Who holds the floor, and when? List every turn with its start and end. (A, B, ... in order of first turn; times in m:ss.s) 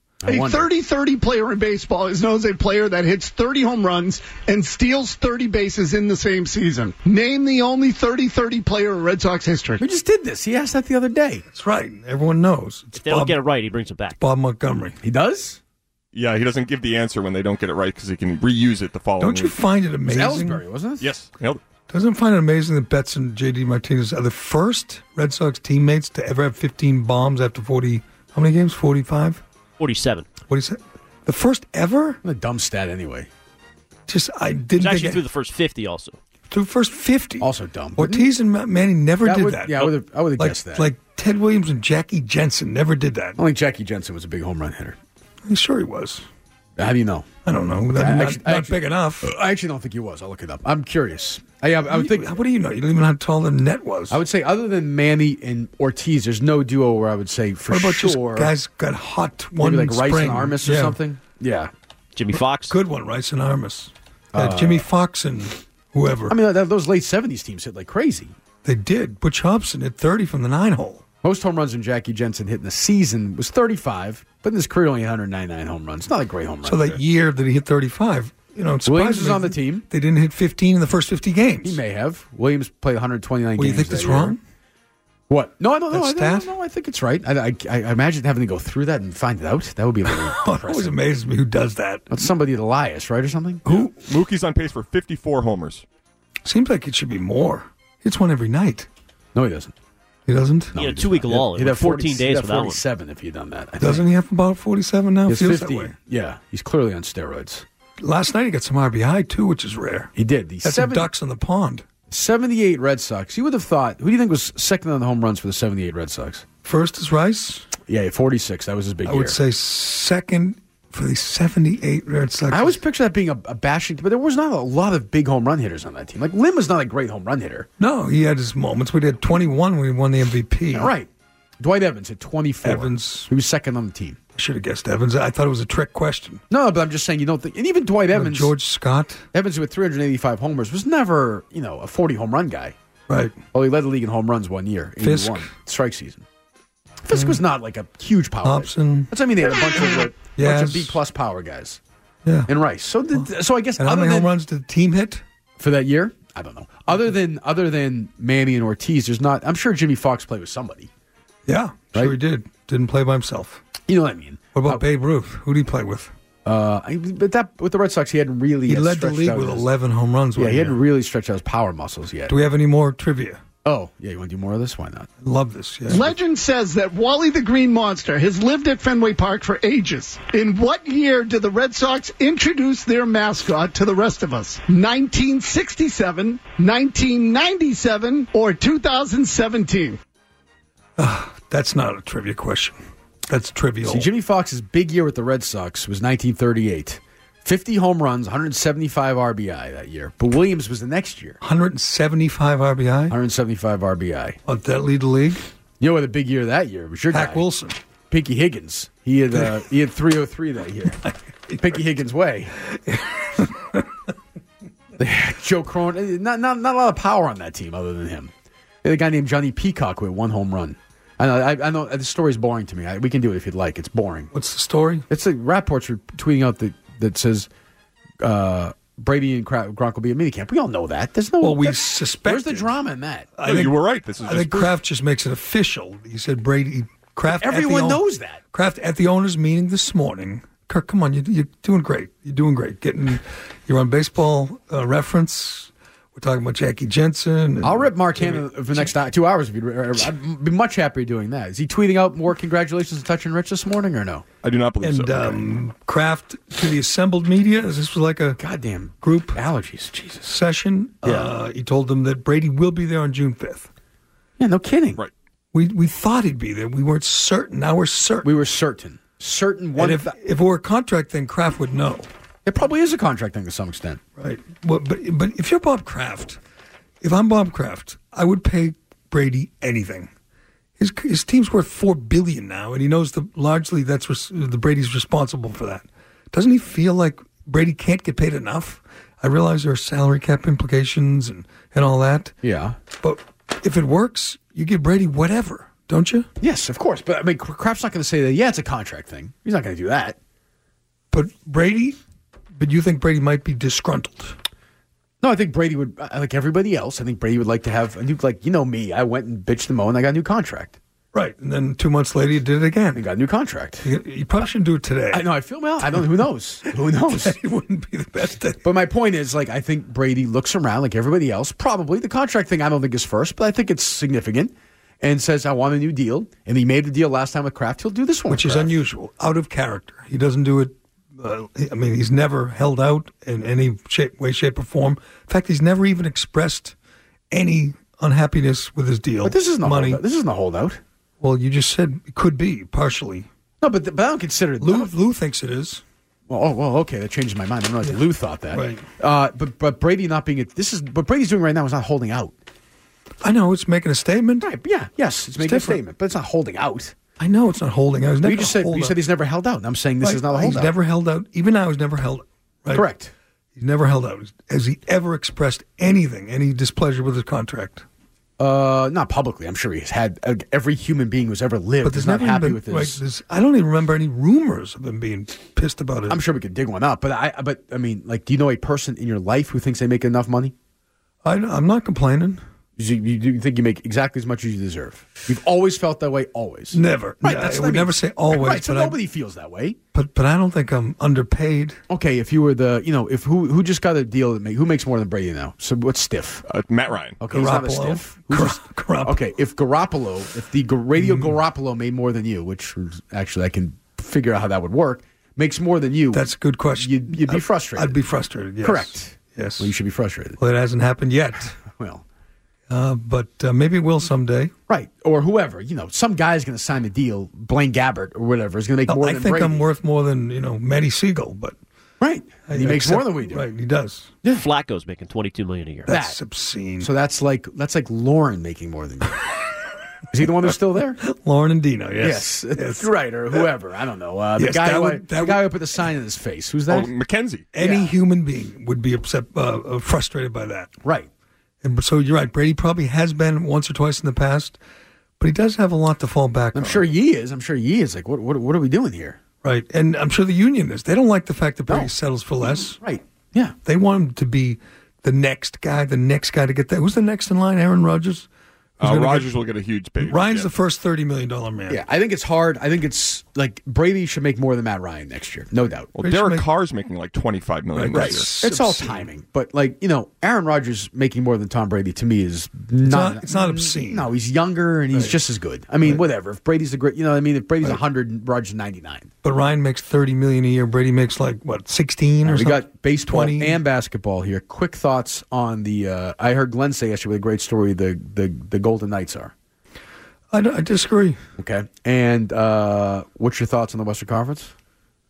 0:00.2-0:00.7 A
0:00.2-0:09.8 B
0:09.8-0:11.4 A
0:11.5-0:13.4 C
0:12.9-0:14.2 D
0:14.2-0:15.0 C
0:15.0-0:15.6 A
0:16.1-0:19.5 E
0:19.2-0:20.6 C
0:20.0-0:21.1 A
0:21.0-0:21.6 E
0:21.9-0:29.4 C
0:29.8-0:30.3 D
0:30.5-0:32.2 C
0:32.2-0:33.3 A
0:34.1-0:35.2 C
0:34.8-0:36.2 D
0:36.5-0:43.4 C
0:37.4-0:38.3 A
0:39.2-0:40.9 A
0:43.4-0:45.0 A
0:45.4-0:46.2 C
0:46.8-0:47.3 A
0:47.4-0:49.3 C
0:47.9-0:52.3 A
0:51.9-0:54.2 C
0:54.1-0:58.5 A
0:57.7-1:01.0 C
0:59.6-1:01.7 A
1:02.2-1:02.7 D
1:02.7-1:06.4 C
1:04.3-1:04.8 A
1:06.3-1:08.3 A
1:08.6-1:11.0 C
1:11.2-1:17.0 A
1:16.6-1:21.8 C
1:18.9-1:19.8 A
1:21.6-1:24.4 A
1:23.6-1:24.4 C
1:25.3-1:31.0 A
1:25.9-1:26.5 C
1:30.1-1:32.2 C
1:32.1-1:33.6 A
1:33.6-1:33.9 C
1:33.7-1:35.8 E
1:36.4-1:38.9 C
1:39.3-1:39.7 A
1:40.3-1:40.8 C
1:40.7-1:44.1 A
1:40.8-1:42.8 D
1:43.8-1:45.9 C
1:45.3-1:47.6 A
1:48.0-1:51.8 C
1:50.2-1:51.1 A
1:52.1-1:56.4 A
1:56.6-1:57.7 C
1:57.9-1:59.4 A
1:59.0-2:02.8 C
2:02.5-2:07.7 A
2:07.8-2:10.9 C
2:10.7-2:11.1 A
2:11.6-2:14.2 A
2:12.6-2:13.3 C
2:14.3-2:16.4 C
2:16.5-2:18.5 A
2:18.1-2:19.3 C
2:19.3-2:22.7 A
2:23.1-2:23.4 C
2:23.5-2:26.2 A
2:25.0-2:25.5 C
2:27.0-2:31.8 A
2:27.1-2:27.4 C
2:28.4-2:29.1 C
2:29.8-2:31.0 C
2:32.2-2:32.5 C
2:32.5-2:34.3 A
2:33.8-2:35.2 C
2:35.6-2:40.9 A
2:41.5-2:43.6 C
2:43.9-2:44.8 A
2:44.5-2:46.1 C
2:46.4-2:49.6 A
2:48.7-2:50.8 C
2:50.4-2:52.3 A
2:52.3-2:53.4 C
2:53.6-2:55.1 A
2:55.2-2:56.1 C
2:55.9-3:10.0 B
3:11.0-3:12.8 C
3:13.3-3:14.1 C
3:13.8-3:21.4 A
3:21.4-3:23.1 C
3:23.1-3:24.4 A
3:24.5-3:25.4 C
3:25.8-3:27.4 A
3:27.1-3:27.8 C
3:28.1-3:31.0 A
3:31.5-3:32.5 A
3:32.7-3:33.9 C
3:35.0-3:38.3 A
3:38.8-3:44.3 A
3:44.3-3:45.0 C
3:45.1-3:47.5 A
3:48.2-3:53.3 A
3:51.4-3:52.7 C
3:53.4-4:08.9 C
3:53.4-3:54.7 E
3:57.3-3:58.4 A
4:07.6-4:14.2 A
4:14.4-4:15.4 E
4:14.8-4:18.4 C
4:18.4-4:20.3 A
4:19.0-4:19.4 C
4:20.2-4:23.7 C
4:21.0-4:21.3 A
4:24.4-4:25.0 A
4:25.5-4:28.3 C
4:28.2-4:30.1 A
4:29.8-4:32.1 C
4:32.4-4:34.0 A
4:34.2-4:36.4 C
4:37.0-4:40.1 C
4:40.8-4:52.4 C
4:52.4-4:52.8 A
4:53.0-4:56.3 C
4:56.4-5:00.2 A
5:01.1-5:02.0 C
5:02.6-5:04.4 C
5:05.2-5:10.8 A
5:11.1-5:13.0 C
5:12.9-5:13.9 A
5:13.8-5:15.2 C
5:15.1-5:17.4 A
5:17.1-5:18.6 C
5:18.6-5:28.7 A
5:28.3-5:36.8 C
5:37.3-5:40.0 C
5:39.2-5:40.8 A
5:41.2-5:43.3 C
5:43.6-5:44.9 A
5:44.6-5:45.8 C
5:46.3-5:52.4 A
5:48.5-5:48.8 C
5:53.2-5:54.4 C
5:54.4-5:57.0 A
5:55.4-5:55.8 C
5:57.2-5:59.0 C
5:58.2-6:00.7 A
6:00.0-6:02.9 C
6:02.7-6:03.1 A
6:03.6-6:07.9 C
6:08.4-6:13.0 A
6:11.8-6:16.2 C
6:16.1-6:20.5 A
6:21.2-6:22.4 C
6:22.8-6:29.8 A
6:26.7-6:29.0 C
6:29.9-6:31.8 C
6:31.9-6:36.4 A
6:36.5-6:37.2 E
6:37.2-6:48.0 A
6:37.3-6:39.2 C
6:41.0-6:41.3 C
6:46.1-6:49.7 C
6:48.6-6:50.4 A
6:50.4-6:51.6 C
6:51.6-6:52.0 A
6:52.7-6:54.5 C
6:54.7-6:59.6 A
6:58.9-7:01.6 C
7:02.0-7:03.4 A
7:02.5-7:04.1 C
7:04.3-7:05.9 D
7:05.9-7:06.9 C
7:05.9-7:06.2 A
7:06.8-7:09.2 A
7:10.1-7:11.0 A
7:11.0-7:12.9 C
7:12.0-7:16.9 A
7:14.4-7:15.5 C
7:16.7-7:17.5 E
7:17.5-7:20.7 C
7:17.6-7:17.9 A
7:20.8-7:21.1 A
7:21.6-7:24.6 C
7:25.2-7:26.8 C
7:26.5-7:29.2 A
7:29.4-7:32.8 C
7:32.8-7:33.6 A
7:33.6-7:38.3 C
7:38.8-7:40.5 E
7:38.8-7:39.4 C
7:40.0-7:41.8 C
7:41.7-7:45.9 A
7:45.9-7:48.4 E
7:46.0-7:46.4 C
7:47.7-7:49.1 C
7:47.9-7:59.1 A
7:52.8-7:54.1 C
7:59.2-8:03.6 C
8:02.2-8:09.3 A
8:10.3-8:11.2 C
8:11.4-8:14.5 A